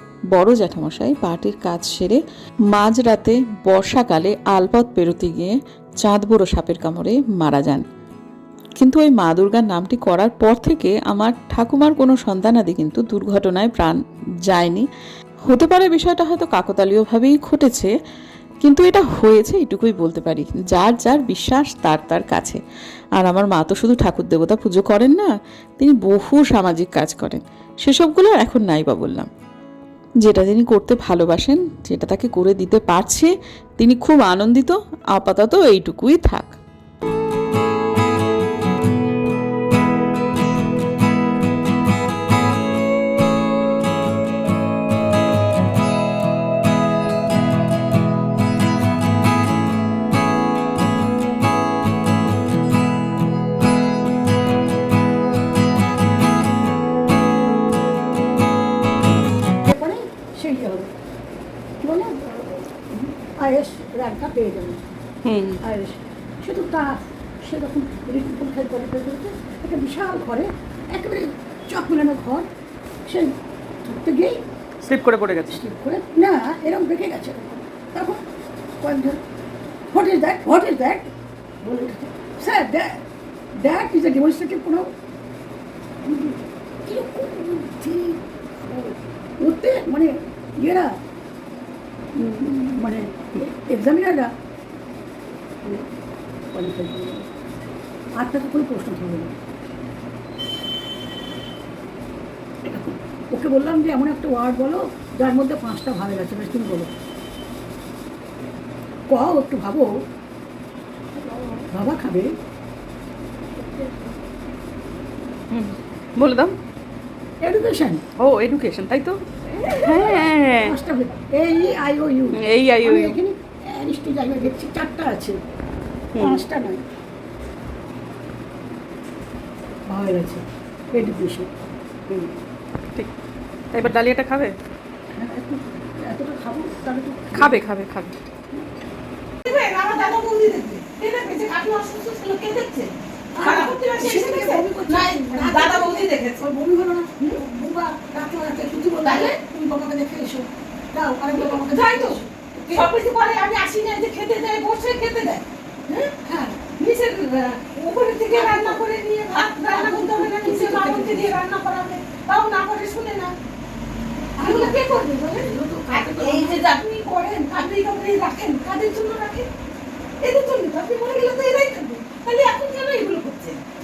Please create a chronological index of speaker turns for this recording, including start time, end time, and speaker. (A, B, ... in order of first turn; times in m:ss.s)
0:00.3-0:07.8 A
0:08.8-0:14.9 A
0:15.5-0:17.9 A
0:18.6-0:22.6 A
0:23.2-0:29.3 A
0:30.2-0:36.5 A
0:59.6-1:00.9 B
1:01.8-1:04.8 B
1:05.3-1:05.6 C
1:05.6-1:12.5 B
1:13.1-1:14.4 B
1:14.8-1:15.6 C
1:15.5-1:18.2 B
1:18.8-1:19.2 B
1:19.9-1:21.1 B
1:21.6-1:23.0 B
1:23.6-1:24.9 B
1:26.0-1:30.9 B
1:32.2-1:34.3 B
1:36.5-1:37.3 B
1:38.2-1:39.3 B
1:42.7-1:46.9 B
1:49.1-1:49.9 B
1:51.7-1:52.3 B
1:53.6-1:54.0 B
1:55.5-1:56.6 C
1:57.4-1:58.0 B
1:58.2-2:00.8 C
1:59.7-2:05.4 B
2:02.3-2:03.2 C
2:06.2-2:06.4 C
2:06.2-2:06.8 B
2:09.9-2:11.5 B
2:13.7-2:14.5 C
2:15.1-2:17.6 B
2:17.3-2:18.1 C
2:19.5-2:26.4 D
2:23.4-2:33.0 B
2:29.0-2:29.6 D
2:31.3-2:36.2 D
2:36.2-2:36.7 B
2:36.7-2:43.4 D
2:38.4-2:38.8 B
2:39.5-2:41.4 B
2:44.4-2:46.8 B
2:44.4-2:49.5 D
2:50.2-2:53.6 D